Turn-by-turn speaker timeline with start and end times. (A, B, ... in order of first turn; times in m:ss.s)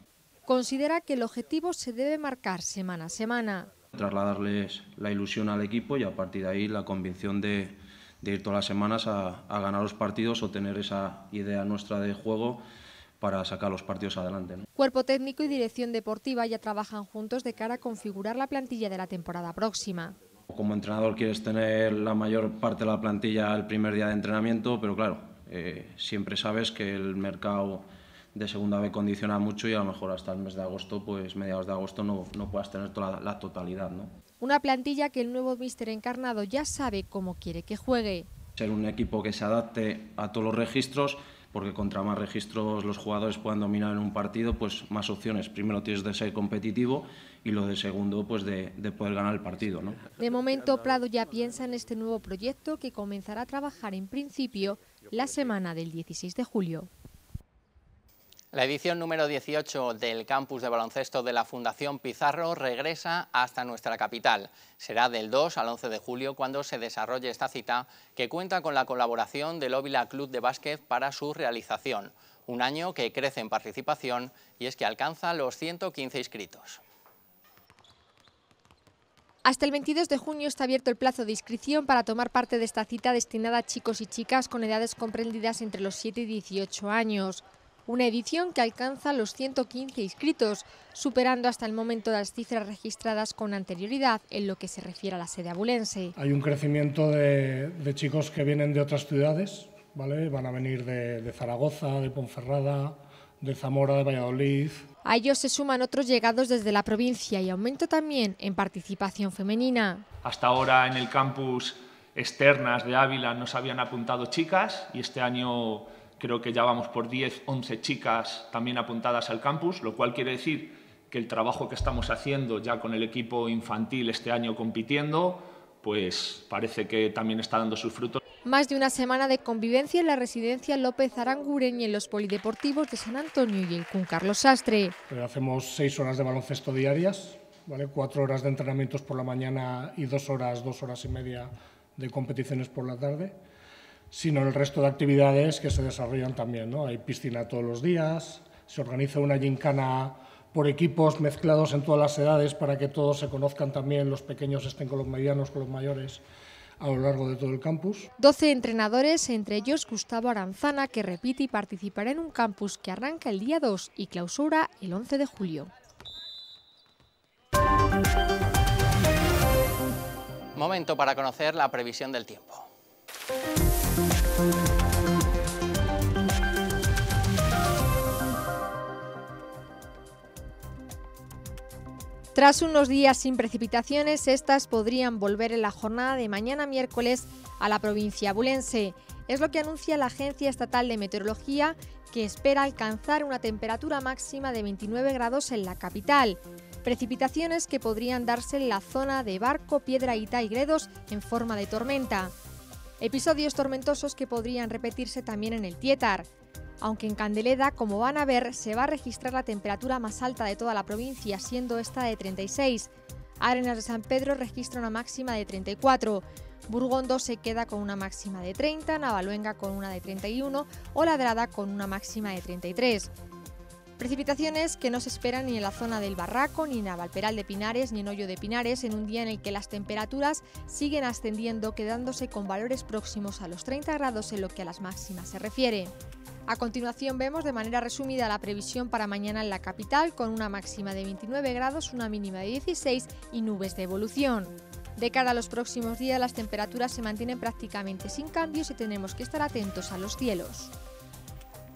0:00.4-0:03.7 A
0:03.9-0:12.6 B
0:13.2-0:14.6 B
0:14.7-0:20.2 A
0:20.5-0:34.1 B
0:34.4-0:38.3 A
0:38.6-0:50.1 B
0:50.1-0:56.9 A
0:58.5-1:16.8 C
1:19.4-1:36.1 A
1:36.2-1:44.8 D
1:45.0-1:50.0 A
1:50.2-2:08.2 E
2:08.4-2:14.9 A
2:15.1-2:23.4 D
2:24.1-2:36.2 D
2:36.8-2:38.1 D
2:38.2-2:45.7 A
2:50.6-2:52.7 C
3:02.3-3:22.3 A
3:23.0-3:26.3 A
3:26.8-3:43.1 A
3:44.0-3:55.9 A
3:56.5-4:10.7 A